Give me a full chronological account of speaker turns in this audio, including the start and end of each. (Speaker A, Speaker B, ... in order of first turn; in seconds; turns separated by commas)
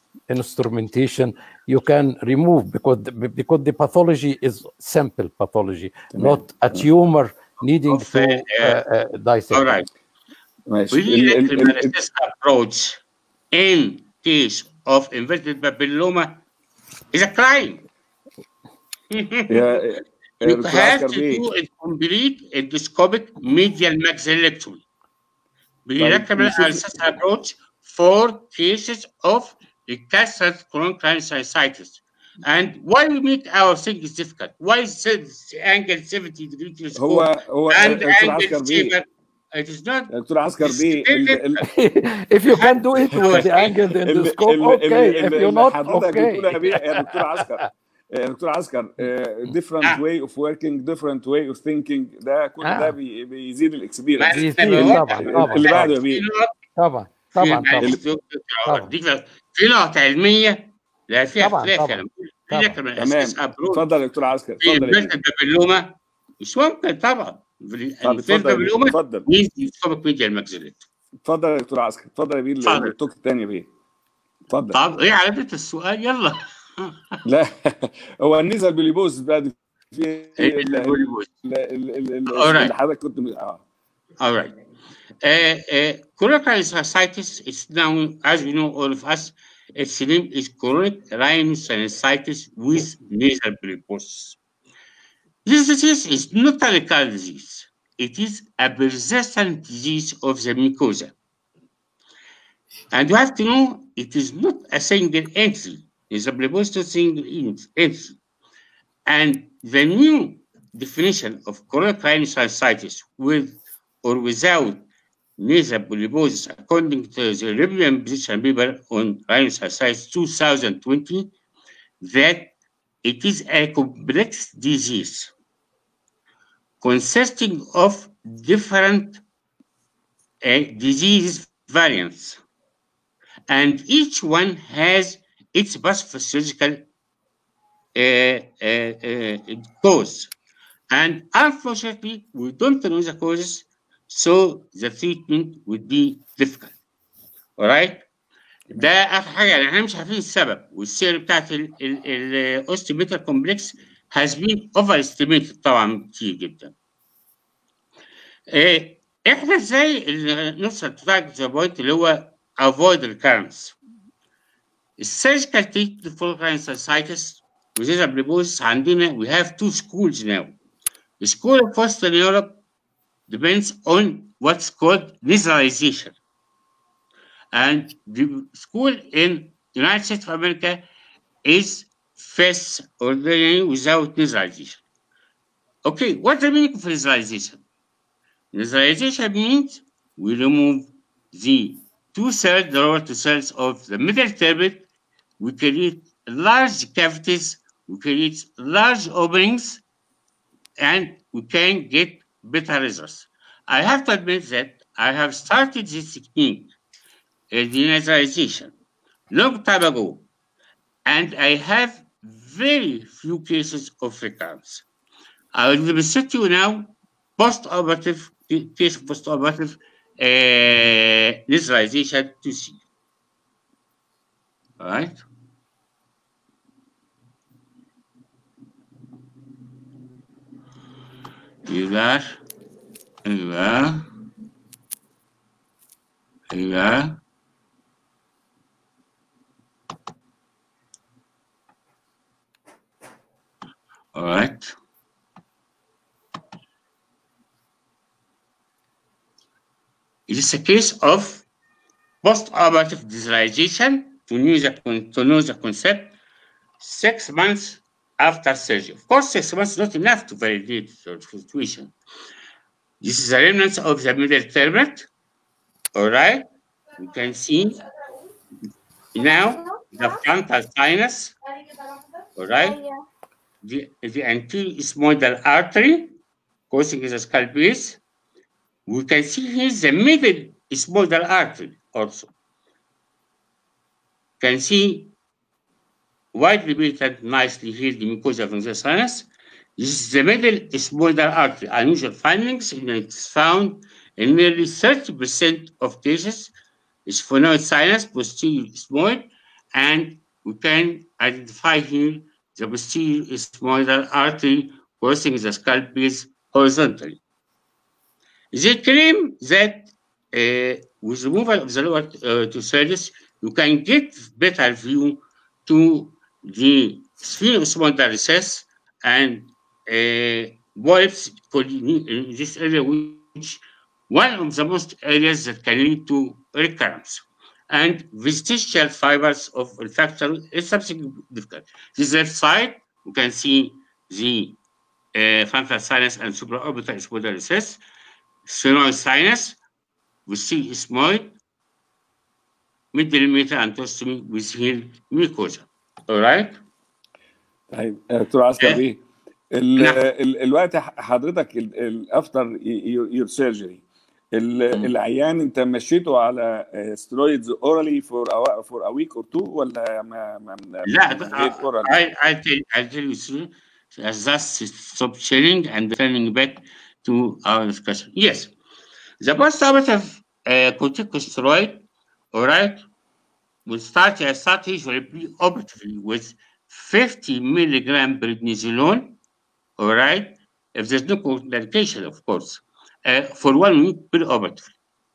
Speaker A: 0.3-9.8, Speaker B: 6.1-6.9, Speaker C: 7.9-8.8, Speaker C: 9.5-9.9, Speaker B: 10.7-11.9, Speaker C: 10.9-13.0, Speaker C: 13.5-16.4, Speaker C: 17.1-17.9, Speaker C: 19.1-19.6, Speaker B: 19.5-21.4, Speaker C: 20.4-24.8, Speaker C: 25.9-41.6, Speaker B: 26.0-27.1, Speaker B: 37.0-39.0, Speaker B: 40.1-41.6, Speaker A: 41.6-46.5, Speaker C: 42.5-43.8, Speaker B: 44.0-56.3, Speaker A: 52.6-53.0, Speaker C: 54.2-56.5, Speaker A: 54.3-55.9, Speaker A: 56.8-58.0, Speaker C: 57.3-63.9, Speaker A: 58.7-58.9, Speaker A: 61.4-62.8, Speaker B: 63.0-65.1, Speaker C: 64.6-70.8, Speaker B: 68.0-69.3, Speaker B: 71.2-73.7, Speaker C: 72.6-73.0, Speaker B: 74.5-74.8, Speaker C: 74.7-77.2, Speaker B: 77.2-83.6, Speaker C: 80.4-81.3, Speaker C: 82.3-82.7, Speaker C: 84.2-84.6, Speaker C: 85.2-94.4, Speaker C: 95.5-101.1, Speaker C: 102.9-108.2, Speaker C: 109.1-114.9, Speaker C: 115.4-121.3, Speaker C: 122.0-125.3, Speaker C: 126.8-129.2, Speaker C: 130.4-132.4, Speaker C: 133.5-136.9, Speaker C: 137.9-140.3, Speaker C: 140.9-146.7, Speaker C: 147.6-148.1, Speaker C: 148.7-156.7, Speaker C: 158.5-163.8, Speaker C: 165.0-170.6, Speaker C: 171.2-172.6, Speaker C: 173.3-176.2, Speaker C: 177.5-180.9, Speaker C: 181.4-184.8, Speaker C: 185.8-187.6, Speaker C: 188.5-194.8, Speaker C: 195.4-199.8, Speaker C: 200.8-206.8, Speaker C: 207.5-208.8, Speaker C: 209.3-210.3, Speaker C: 211.1-214.8, Speaker C: 215.5-222.8, Speaker C: 224.8-225.2, Speaker C: 231.7-232.4, Speaker C: 233.2-234.1, Speaker C: 236.5-237.2, Speaker C: 244.1-244.8, Speaker C: 250.3-251.4, Speaker C: 252.2-256.1, Speaker C: 256.8-261.9, Speaker C: 263.0-265.1, Speaker C: 265.9-266.5, Speaker C: 267.0-267.8, Speaker C: 269.1-271.4, Speaker C: 272.4-272.8, Speaker C: 273.6-276.2, Speaker C: 276.7-278.0, Speaker C: 278.9-282.3, Speaker C: 284.4-285.1, Speaker C: 286.3-296.5, Speaker C: 297.1-307.2, Speaker C: 308.5-334.6, Speaker C: 335.1-337.8, Speaker C: 338.4-339.6, Speaker C: 340.3-341.4, Speaker C: 342.9-346.6, Speaker B: 347.7-349.0, Speaker B: 349.5-353.8, Speaker B: 354.4-361.9, Speaker C: 360.9-368.6, Speaker C: 369.2-372.9, Speaker C: 373.7-379.2, Speaker C: 379.8-384.7